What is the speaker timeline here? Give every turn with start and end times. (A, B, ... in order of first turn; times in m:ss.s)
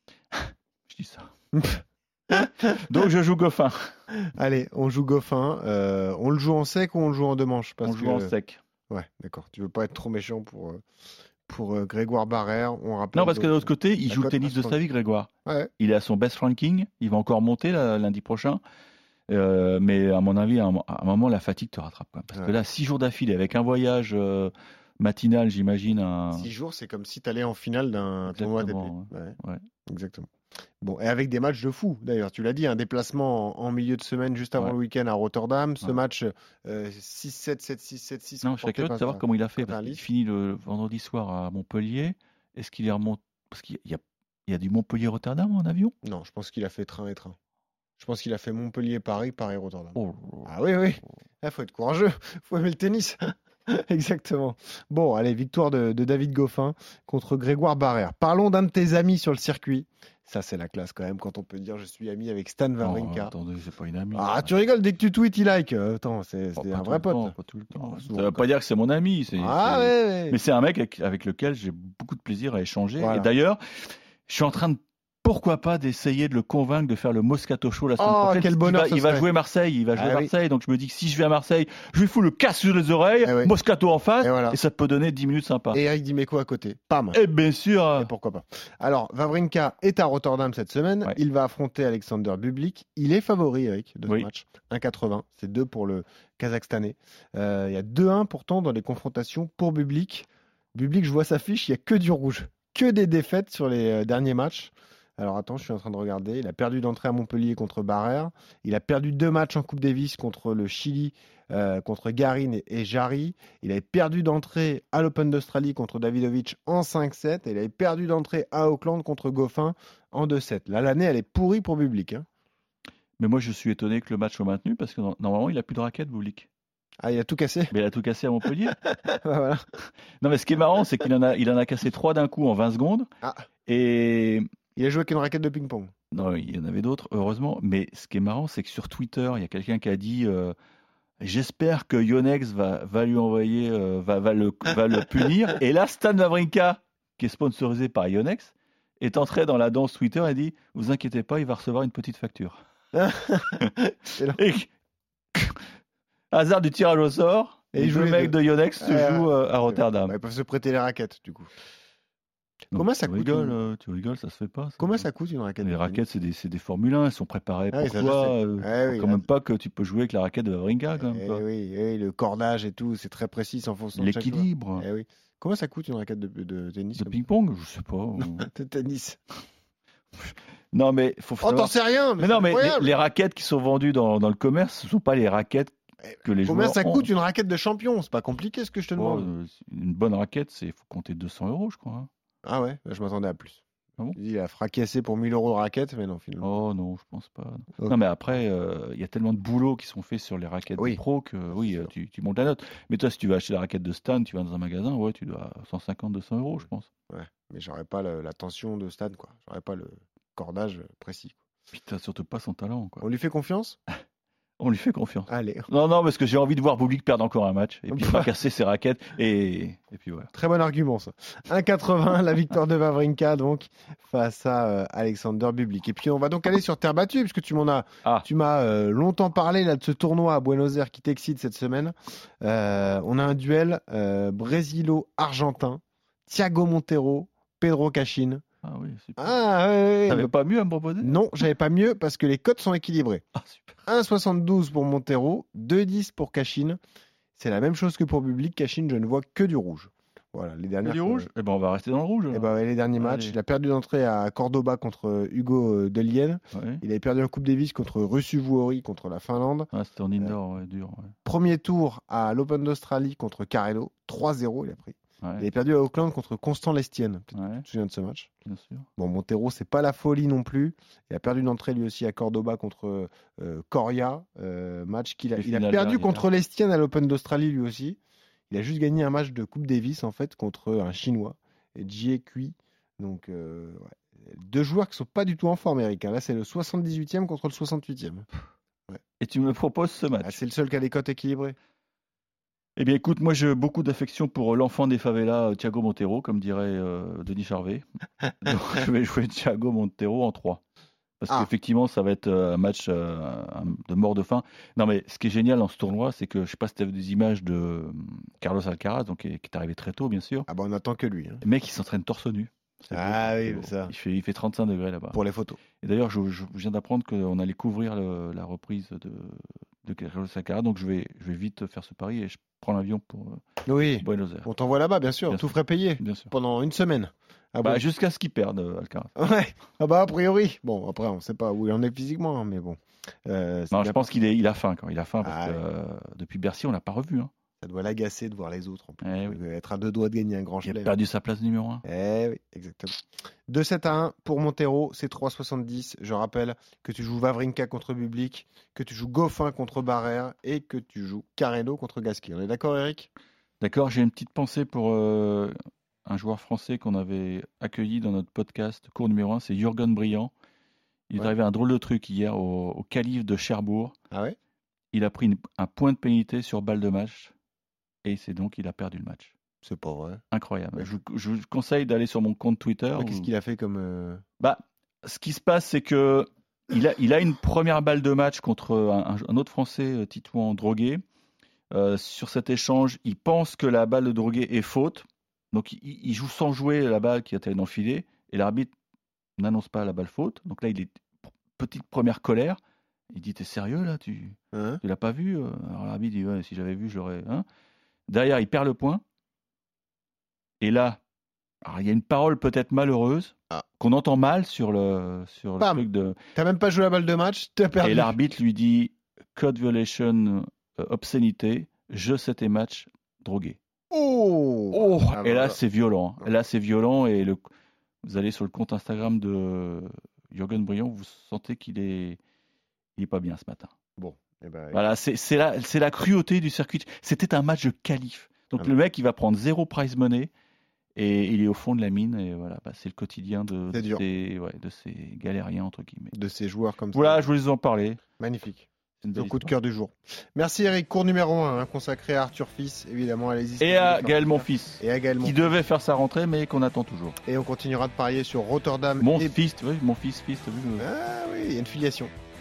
0:00.3-0:01.3 A
0:01.5-0:02.9 B
0:02.3-0:04.0 A
0:04.4-0:08.4 B
0:07.8-0:08.6 A
0:08.9-0:10.8 B
0:11.4-0:14.8 B
0:13.1-0:18.6 A
0:15.4-0:15.7 B
0:19.3-0:26.5 A
0:22.3-0:22.6 B
0:26.3-0:29.4 B
0:28.3-0:29.6 A
0:29.9-0:30.3 B
0:30.8-0:40.0 B
0:38.4-0:45.9 A
0:46.0-0:47.4 B
0:48.0-1:03.3 B
0:50.0-0:50.5 A
1:02.8-1:04.5 A
1:04.1-1:08.5 B
1:06.6-1:25.8 A
1:09.3-1:10.4 B
1:13.0-1:13.3 B
1:18.0-1:19.3 B
1:19.9-1:20.3 B
1:23.2-1:23.5 B
1:24.2-1:24.6 B
1:25.7-1:27.2 B
1:27.1-1:28.1 A
1:28.0-2:02.3 B
2:03.2-2:06.5 A
2:07.0-2:07.7 B
2:07.7-2:08.8 A
2:08.8-2:09.6 B
2:10.2-2:13.1 A
2:13.7-2:14.5 A
2:14.8-2:16.2 B
2:16.1-2:20.6 A
2:21.2-2:32.6 A
2:32.9-2:33.6 B
2:33.6-2:34.7 A
2:34.1-2:34.4 B
2:35.3-2:35.6 A
2:36.3-2:40.1 A
2:37.7-2:41.5 B
2:42.7-2:43.6 B
2:42.7-2:45.1 A
2:44.8-2:46.0 B
2:45.6-2:51.4 A
2:47.7-2:49.3 B
2:51.0-2:57.2 B
2:53.9-2:54.8 A
2:57.0-2:58.5 A
2:58.2-2:59.2 B
3:00.7-3:07.1 A
3:01.4-3:03.0 B
3:06.1-3:09.3 B
3:08.9-3:12.1 A
3:12.4-3:13.6 B
3:14.2-3:16.5 B
3:16.4-3:26.9 A
3:27.1-3:31.4 B
3:31.7-3:33.1 A
3:33.0-3:33.8 B
3:34.6-3:40.3 A
3:35.3-3:35.7 B
3:37.9-3:38.3 B
3:40.3-3:58.4 B
3:58.6-3:59.4 A
3:59.2-4:00.3 B
4:00.1-4:01.2 A
4:01.0-4:03.2 B
4:03.3-4:03.8 A
4:03.8-4:06.8 B
4:07.4-4:11.3 B
4:10.8-4:13.4 A
4:12.3-4:20.4 B
4:16.5-4:16.8 A
4:19.7-4:21.2 A
4:21.2-4:28.3 B
4:25.2-4:25.5 A
4:27.3-4:27.7 A
4:28.4-4:28.9 A
4:29.0-4:38.0 B
4:35.4-4:36.2 A
4:38.5-4:48.3 B
4:49.2-4:50.4 A
4:50.2-4:51.6 B
4:52.8-4:57.8 A
4:58.4-5:00.6 A
5:01.2-5:10.5 A
5:10.5-5:11.4 B
5:11.4-5:15.2 A
5:12.9-5:13.9 B
5:15.1-5:15.6 B
5:15.8-5:23.4 A
5:23.7-5:27.8 B
5:24.0-5:24.5 A
5:25.3-5:26.3 A
5:27.6-5:29.1 A
5:29.2-5:34.2 B
5:33.7-5:37.3 A
5:35.2-5:35.6 B
5:37.6-5:40.9 B
5:39.0-5:39.4 A
5:40.6-5:41.8 A
5:41.8-5:43.0 B
5:43.5-5:53.1 B
5:53.6-5:55.5 A
5:56.0-6:00.3 A
6:01.1-6:03.9 A
6:04.1-6:04.4 B
6:04.9-6:07.3 A
6:08.0-6:09.3 A
6:09.6-6:10.2 B
6:10.3-6:13.3 A
6:13.0-6:14.2 B
6:14.4-6:21.0 A
6:21.7-6:28.7 A
6:29.4-6:32.6 A
6:33.1-6:37.4 A
6:34.5-6:34.8 B
6:38.1-6:39.0 A
6:40.6-6:41.0 A
6:41.6-6:46.2 A
6:45.6-6:45.8 B
6:46.4-6:48.2 B
6:47.8-6:53.6 A
6:53.9-6:55.6 B
6:54.7-6:57.4 A
6:58.0-7:02.2 A
7:03.0-7:03.7 A
7:04.0-7:04.8 B
7:04.7-7:10.3 A
7:11.0-7:16.1 A
7:13.7-7:14.0 B
7:16.1-7:17.2 B
7:16.9-7:18.0 A
7:18.2-7:25.6 B
7:19.0-7:19.5 A
7:23.6-7:27.2 A
7:27.2-7:29.4 B
7:29.0-7:30.9 A
7:30.8-7:32.1 B